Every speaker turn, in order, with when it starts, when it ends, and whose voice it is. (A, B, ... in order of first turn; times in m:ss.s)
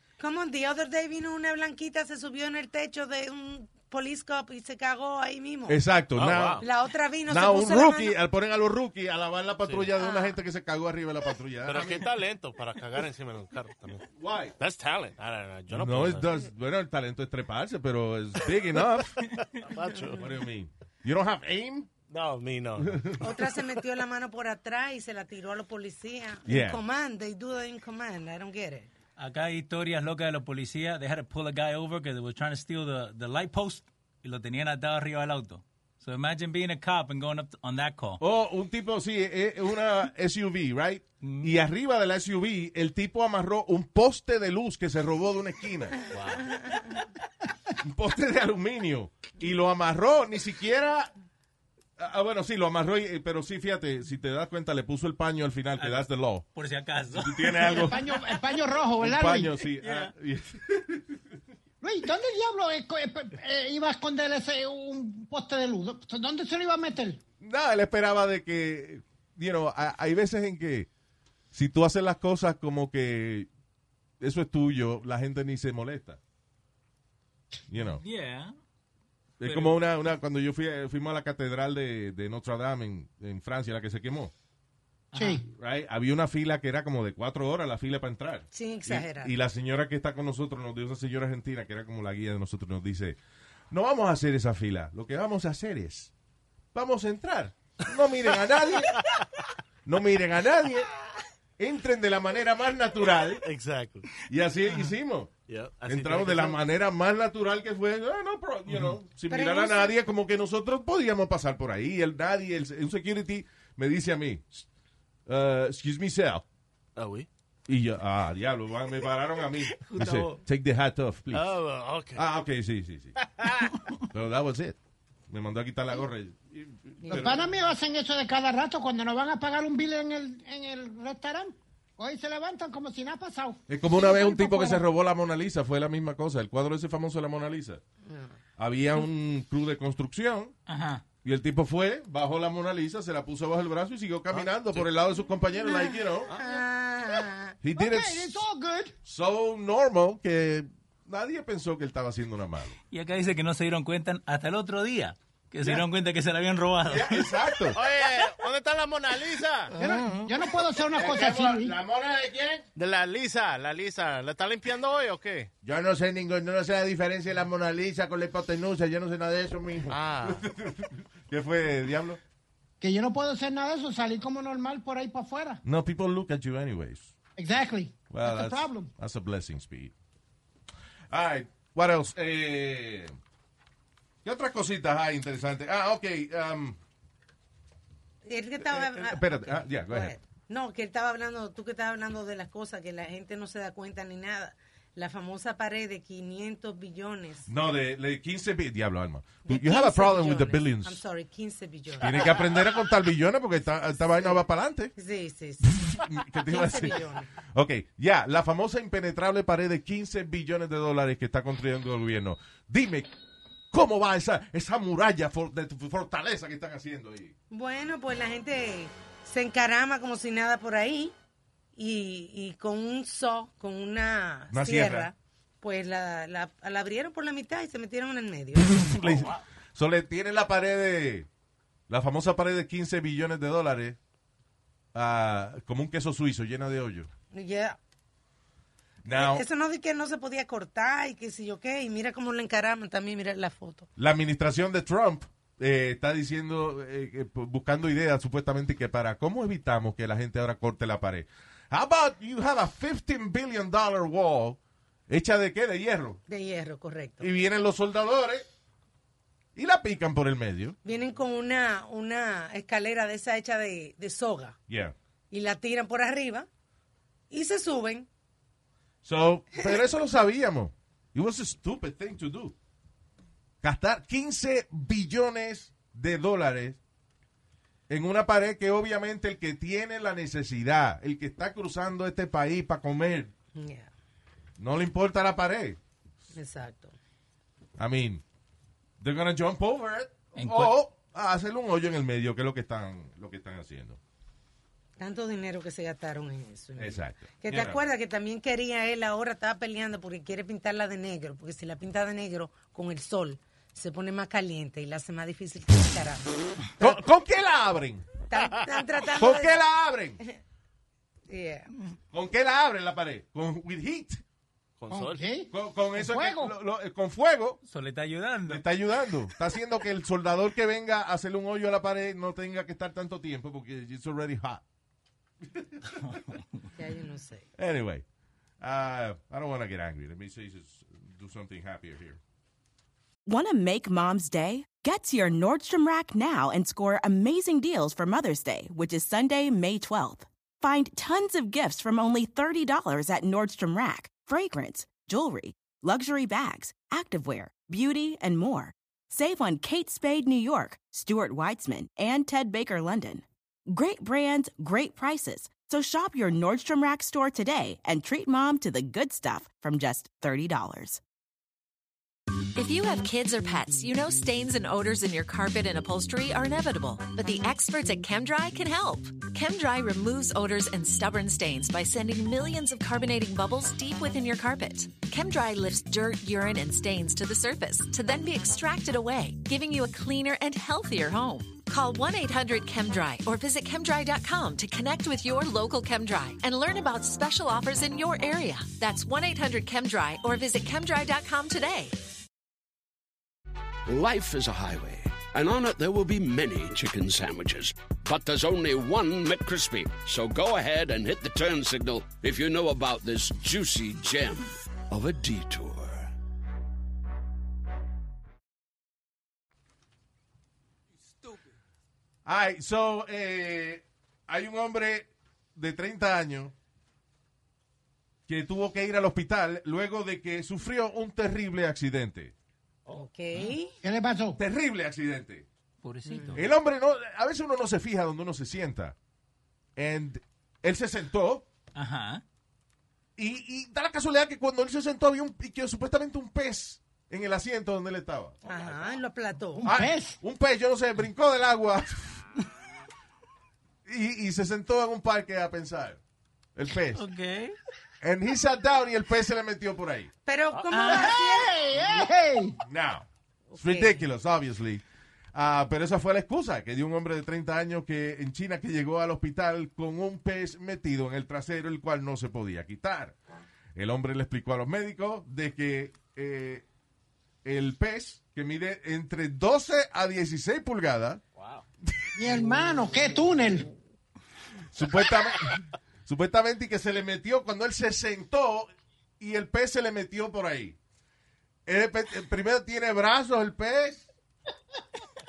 0:00.2-0:05.8 A
0:05.7-0:06.6 B
0:06.2-0:06.6 C
0:06.6-0:08.2 A
0:07.3-0:12.0 B
0:10.0-0:10.4 A
0:11.6-0:14.0 C
0:14.2-0:14.5 B
0:14.6-0:16.3 C
0:15.7-0:19.3 B
0:19.6-0:20.3 C
0:20.1-0:21.9 B
0:22.1-0:23.2 C
0:22.8-0:23.2 B
0:23.2-0:28.9 A
0:26.4-0:26.8 B
0:29.2-0:38.2 D
0:38.2-0:46.0 B
0:41.2-0:41.5 D
0:46.1-0:46.5 C
0:47.8-0:51.1 B
0:52.0-0:56.4 B
0:55.8-0:58.2 D
0:57.1-0:58.0 B
0:57.6-0:59.5 E
0:59.0-1:01.2 B
0:59.8-1:00.1 D
1:01.8-1:07.2 E
1:07.4-1:10.9 B
1:11.5-1:13.5 B
1:14.2-1:16.2 B
1:17.7-1:18.0 B
1:18.0-1:18.5 D
1:19.4-1:24.3 B
1:19.4-1:19.8 D
1:25.1-1:25.4 D
1:25.1-1:25.4 E
1:25.5-1:33.2 B
1:28.5-1:29.3 A
1:33.7-1:36.1 B
1:36.7-1:39.1 B
1:39.8-1:40.9 B
1:41.6-1:43.4 B
1:43.4-1:44.1 C
1:44.3-1:45.3 B
1:45.5-1:46.6 C
1:45.8-1:54.6 B
1:49.3-1:50.0 A
1:55.3-1:56.4 B
1:57.0-1:57.3 C
1:57.7-2:01.6 B
1:59.8-2:00.4 D
2:01.3-2:02.2 C
2:02.1-2:03.2 B
2:03.2-2:03.7 C
2:04.1-2:04.8 B
2:05.3-2:07.4 B
2:07.1-2:14.8 E
2:13.7-2:17.8 B
2:18.0-2:18.4 A
2:18.6-2:20.5 B
2:20.7-2:21.0 D
2:21.2-2:26.3 B
2:24.3-2:24.9 C
2:25.6-2:27.6 A
2:26.3-2:26.6 C
2:27.6-2:28.4 B
2:27.8-2:28.9 E
2:29.0-2:32.8 B
2:32.9-2:37.3 D
2:36.8-2:37.8 B
2:37.7-2:40.3 C
2:39.8-2:41.7 E
2:41.0-2:42.7 B
2:42.7-2:45.5 C
2:45.6-2:52.2 B
2:49.9-2:50.4 C
2:52.8-2:55.6 E
2:55.6-2:57.1 B
2:57.4-2:58.9 E
2:58.1-2:59.9 B
3:01.1-3:03.1 B
3:04.2-3:06.8 B
3:08.2-3:17.5 A
3:08.6-3:10.2 B
3:17.5-3:21.0 B
3:19.4-3:22.7 A
3:22.0-3:24.9 B
3:25.0-3:27.3 A
3:25.6-3:33.1 B
3:33.7-3:37.3 B
3:37.5-3:41.1 A
3:41.8-3:48.9 A
3:44.5-3:45.1 B
3:48.5-3:51.3 B
3:51.9-3:54.0 B
3:54.9-3:57.1 B
3:57.3-3:57.8 A
3:59.0-3:59.4 B
3:59.1-4:03.9 A
4:04.0-4:16.2 B
4:16.3-4:17.3 A
4:17.2-4:18.4 B
4:19.6-4:20.8 B
4:20.8-4:24.6 A
4:24.7-4:24.9 B
4:25.3-4:26.5 A
4:27.3-4:28.1 A
4:29.0-4:32.5 B
4:33.6-4:36.8 B
4:37.9-4:43.3 B
4:43.5-4:43.9 A
4:44.6-4:45.8 B
4:46.3-4:47.0 A
4:47.8-4:48.2 B
4:49.0-4:54.0 B
4:50.3-4:50.7 D
4:55.0-5:07.0 A
4:56.8-4:57.8 B
5:06.8-5:08.0 B
5:08.3-5:09.6 A
5:09.2-5:10.2 B
5:11.3-5:11.7 A
5:12.1-5:14.2 B
5:14.8-5:15.3 C
5:14.9-5:16.5 E
5:15.5-5:17.6 B
5:17.6-5:18.6 D
5:18.5-5:24.6 B
5:25.5-5:25.9 B
5:26.0-5:26.4 D
5:26.7-5:27.4 A
5:27.6-5:28.0 B
5:28.6-5:32.2 B
5:33.2-6:01.0 F
6:02.5-6:31.9 G
6:33.9-6:46.1 H
6:52.2-6:56.5 B
6:58.3-7:02.3 B
7:02.9-7:03.8 A
7:03.8-7:04.4 E
7:04.4-7:05.5 B
7:05.8-7:06.4 D
7:06.1-7:06.4 A
7:06.3-7:09.0 B
7:09.8-7:11.5 B
7:11.7-7:12.2 D
7:13.2-7:18.4 B
7:18.4-7:19.6 A
7:19.6-7:20.2 E
7:19.6-7:22.2 B
7:23.8-7:26.0 B
7:26.5-7:27.1 B
7:26.9-7:27.6 D
7:28.0-7:30.1 B
7:30.2-7:31.6 A
7:30.7-7:31.1 D
7:30.8-7:32.6 E
7:32.6-7:34.8 B
7:33.5-7:34.0 A
7:35.3-7:43.2 B
7:43.7-7:46.6 B
7:47.4-7:51.2 B
7:51.4-7:51.6 C
7:51.8-7:52.4 B
7:52.2-7:53.7 E
7:54.7-8:00.8 B
8:01.6-8:04.1 B